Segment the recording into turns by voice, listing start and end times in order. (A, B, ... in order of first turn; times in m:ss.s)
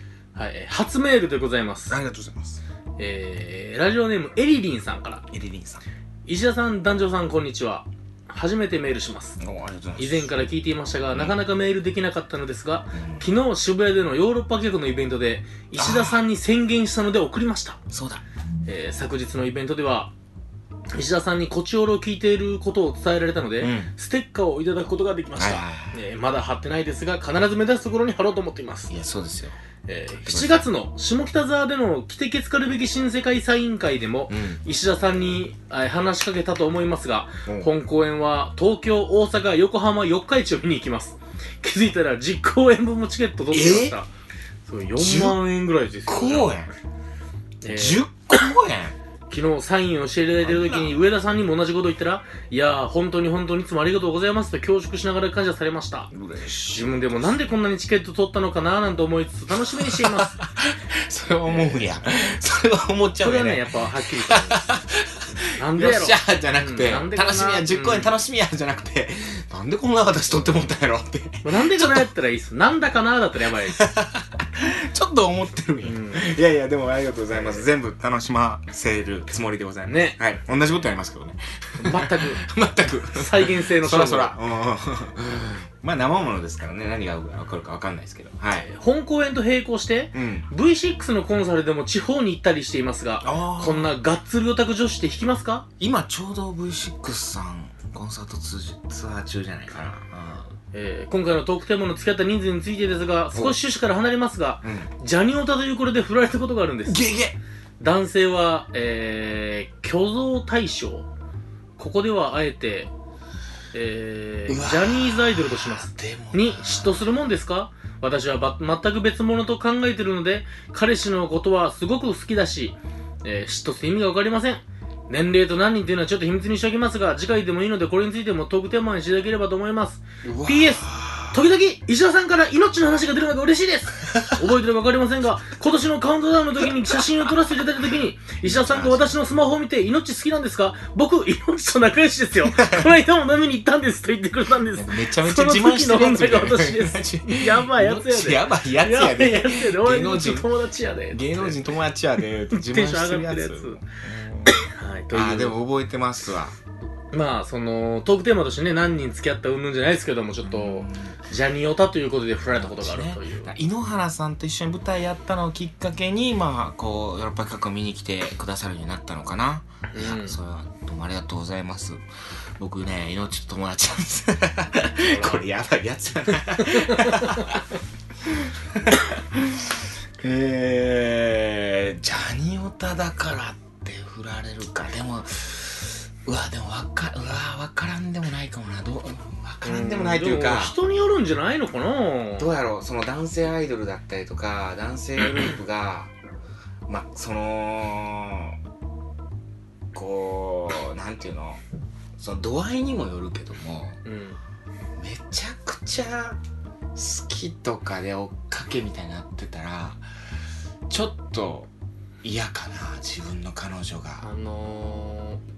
0:00.4-0:02.0 A
0:01.9-0:02.6 B
0:03.0-0:05.2 A
0:05.3-0:05.8 B
0:06.3-0:09.4 A
0:09.4-0:10.3 B
0:10.0-0:17.8 A
0:11.1-0:11.4 B
0:12.9-0:13.3 B
0:15.8-0:16.2 B
0:17.9-0:18.2 B
0:18.6-0:20.1 A
0:20.9-0:29.0 A
0:23.6-0:23.9 B
0:25.4-0:25.9 B
0:28.9-0:29.6 B
0:29.9-0:44.1 A
0:30.1-0:30.7 B
0:34.3-0:34.6 B
0:37.5-0:37.7 B
0:43.5-0:44.0 B
0:44.7-0:46.6 A
0:45.0-0:45.4 B
0:46.1-0:46.7 B
0:47.6-0:48.1 A
0:47.7-0:49.0 B
0:49.3-0:56.1 A
0:50.4-0:51.0 B
0:56.1-0:57.2 B
0:56.7-1:00.4 A
0:59.6-1:12.1 B
1:01.5-1:01.9 A
1:03.2-1:04.8 A
1:05.6-1:08.1 A
1:11.4-1:13.8 A
1:13.7-1:28.7 B
1:15.8-1:16.4 A
1:17.3-1:17.6 A
1:19.9-1:20.2 A
1:21.8-1:22.4 A
1:23.1-1:24.4 A
1:28.6-1:35.7 A
1:30.1-1:30.5 B
1:33.2-1:34.0 B
1:35.8-1:40.5 B
1:40.7-1:47.0 A
1:43.3-1:43.6 B
1:44.6-1:44.9 B
1:46.9-1:47.4 B
1:47.8-1:51.1 A
1:51.8-1:52.9 A
1:53.7-2:31.6 A
1:54.5-1:57.1 B
2:10.2-2:11.4 B
2:18.4-2:19.2 B
2:22.4-2:22.9 B
2:24.7-2:30.5 B
2:31.1-2:34.6 B
2:32.5-2:33.8 A
2:34.6-2:35.6 A
2:35.1-2:36.6 B
2:37.1-2:43.5 A
2:40.4-2:41.2 B
2:42.5-2:52.0 B
2:49.9-2:50.4 A
2:52.6-2:57.6 B
2:55.0-2:55.4 A
2:56.7-2:57.5 A
2:58.3-3:10.8 B
3:09.6-3:12.5 A
3:12.4-3:16.1 B
3:16.9-3:18.6 B
3:19.9-3:21.6 B
3:22.2-3:24.0 B
3:24.0-3:24.4 A
3:25.0-3:26.4 B
3:27.0-3:30.0 B
3:30.9-3:31.7 B
3:32.2-3:34.3 B
3:34.2-3:35.4 A